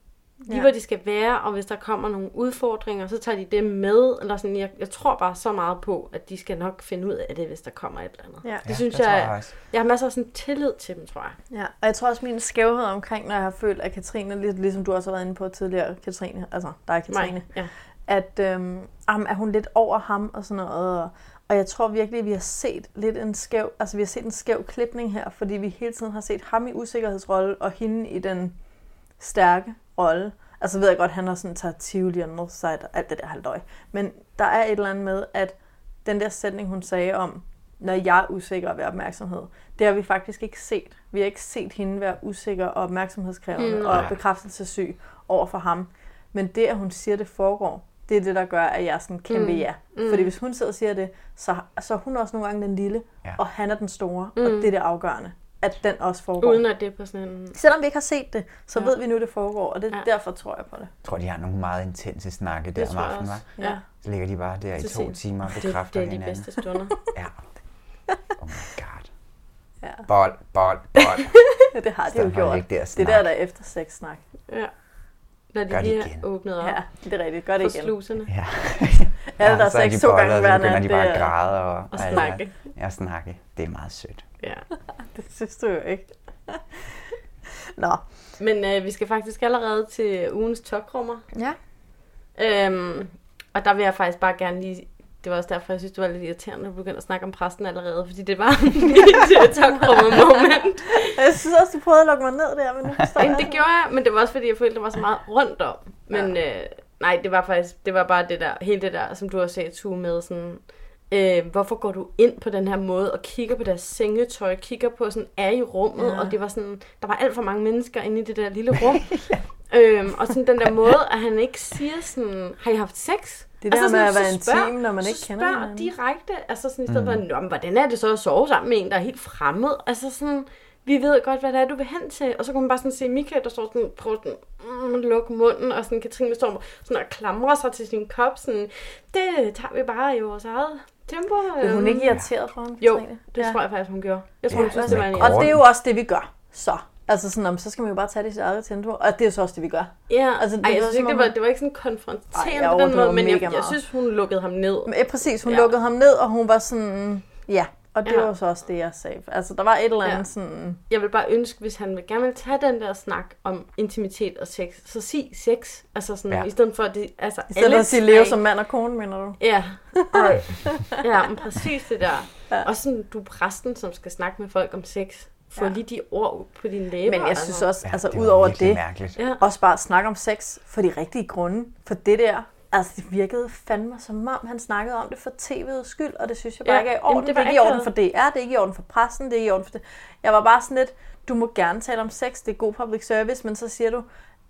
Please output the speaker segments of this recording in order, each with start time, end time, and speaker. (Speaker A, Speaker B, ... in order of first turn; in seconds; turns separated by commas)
Speaker A: 0.5-11.4, Speaker B: 8.6-9.5, Speaker C: 11.5-17.5, Speaker A: 17.1-17.7, Speaker C: 18.1-28.5, Speaker C: 29.2-56.6, Speaker A: 43.6-44.1, Speaker B: 43.9-44.2, Speaker A: 49.3-50.3, Speaker A: 54.4-54.7, Speaker A: 56.4-57.6, Speaker C: 57.5-60.9, Speaker B: 61.0-66.5, Speaker A: 62.8-63.8, Speaker A: 64.8-67.0, Speaker B: 67.1-67.4, Speaker B: 68.4-69.1, Speaker C: 69.8-70.1, Speaker B: 70.1-71.3, Speaker C: 71.7-74.2, Speaker B: 72.1-73.3, Speaker A: 75.5-76.8, Speaker B: 75.7-76.3, Speaker C: 76.6-77.9, Speaker A: 77.6-78.3, Speaker B: 78.3-84.3, Speaker C: 79.4-81.3, Speaker A: 81.9-82.5, Speaker A: 84.4-84.7, Speaker C: 85.1-86.6, Speaker C: 87.8-88.0, Speaker A: 88.4-91.2, Speaker A: 92.3-101.1, Speaker C: 101.1-103.6, Speaker A: 103.2-119.1, Speaker C: 116.0-116.3, Speaker B: 119.1-119.4, Speaker A: 119.7-142.1, Speaker C: 123.6-125.9, Speaker B: 126.9-127.2, Speaker C: 141.6-143.6, Speaker A: 142.8-145.5, Speaker B: 144.5-145.6, Speaker C: 144.5-151.3, Speaker A: 150.1-154.9, Speaker C: 152.3-153.8, Speaker C: 154.9-160.8, Speaker A: 155.4-155.7, Speaker A: 160.9-168.4, Speaker C: 167.5-169.4, Speaker A: 169.4-177.6, Speaker C: 169.9-170.9, Speaker C: 177.1-178.8, Speaker B: 177.9-179.2, Speaker C: 179.4-194.1, Speaker A: 186.6-187.9